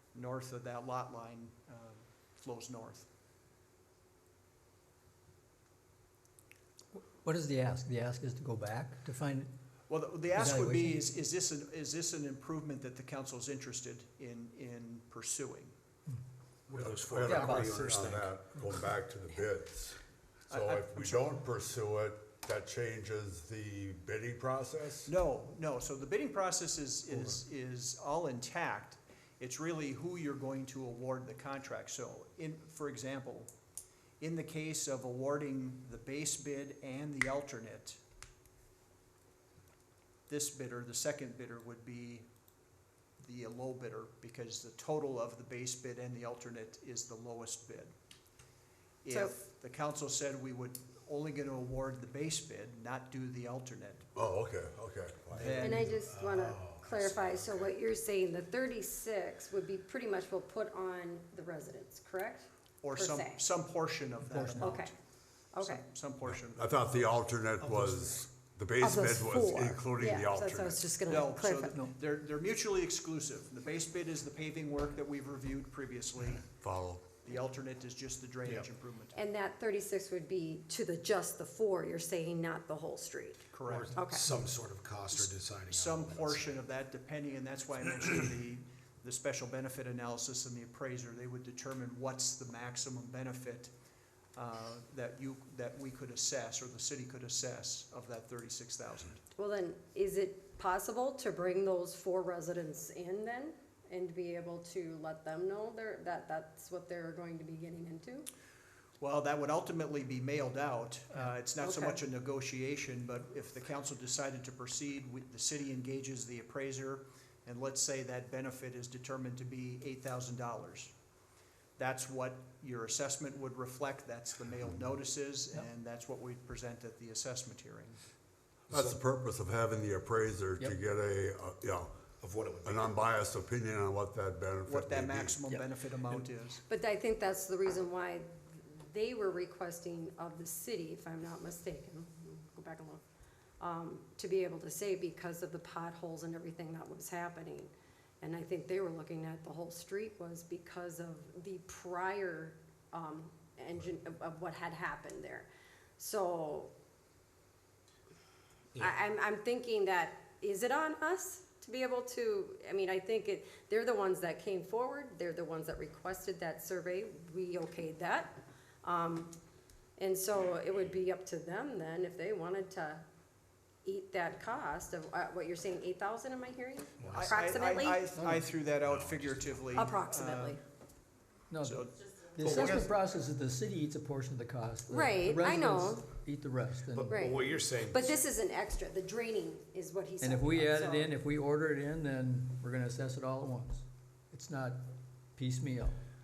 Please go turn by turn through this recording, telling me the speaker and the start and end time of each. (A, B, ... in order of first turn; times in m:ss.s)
0:00.1-0:03.1 A
0:07.0-0:09.5 B
0:09.9-0:15.8 A
0:10.3-0:11.0 B
0:16.7-0:18.4 C
0:16.7-0:25.1 D
0:17.3-0:17.9 B
0:20.5-0:21.3 A
0:25.1-0:33.5 A
0:34.2-0:38.0 A
0:40.3-0:42.3 A
0:43.2-0:47.9 A
0:49.0-0:54.1 A
0:54.2-0:55.9 D
0:55.3-0:56.0 A
0:55.6-1:03.4 E
0:56.0-0:57.7 C
1:02.8-1:04.9 A
1:04.2-1:04.8 B
1:04.6-1:04.9 E
1:05.5-1:05.8 E
1:05.6-1:07.2 A
1:06.3-1:10.9 D
1:08.8-1:11.8 E
1:11.1-1:16.4 A
1:16.6-1:17.1 D
1:17.2-1:19.2 A
1:19.2-1:24.3 E
1:23.5-1:24.0 A
1:23.7-1:26.6 C
1:25.1-1:33.7 A
1:34.4-1:39.2 A
1:39.4-1:48.3 E
1:49.0-2:00.9 A
1:51.6-1:52.0 E
2:01.8-2:08.0 A
2:08.7-2:11.9 D
2:08.7-2:09.0 C
2:12.2-2:13.1 C
2:12.6-2:15.3 D
2:14.7-2:16.6 A
2:15.5-2:16.2 B
2:16.7-2:23.0 E
2:23.6-2:35.5 E
2:36.0-2:36.7 E
2:38.8-2:49.3 E
2:50.0-2:53.0 E
2:53.8-2:58.1 E
2:57.0-2:57.8 C
2:57.1-3:00.6 A
2:58.1-2:58.5 B
2:58.8-2:59.9 C
2:59.7-3:00.6 E
3:01.5-3:07.2 B
3:01.6-3:02.9 A
3:02.4-3:02.9 E
3:04.9-3:06.1 E
3:06.9-3:08.2 C
3:07.1-3:11.1 E
3:10.2-3:14.8 B
3:15.4-3:16.0 B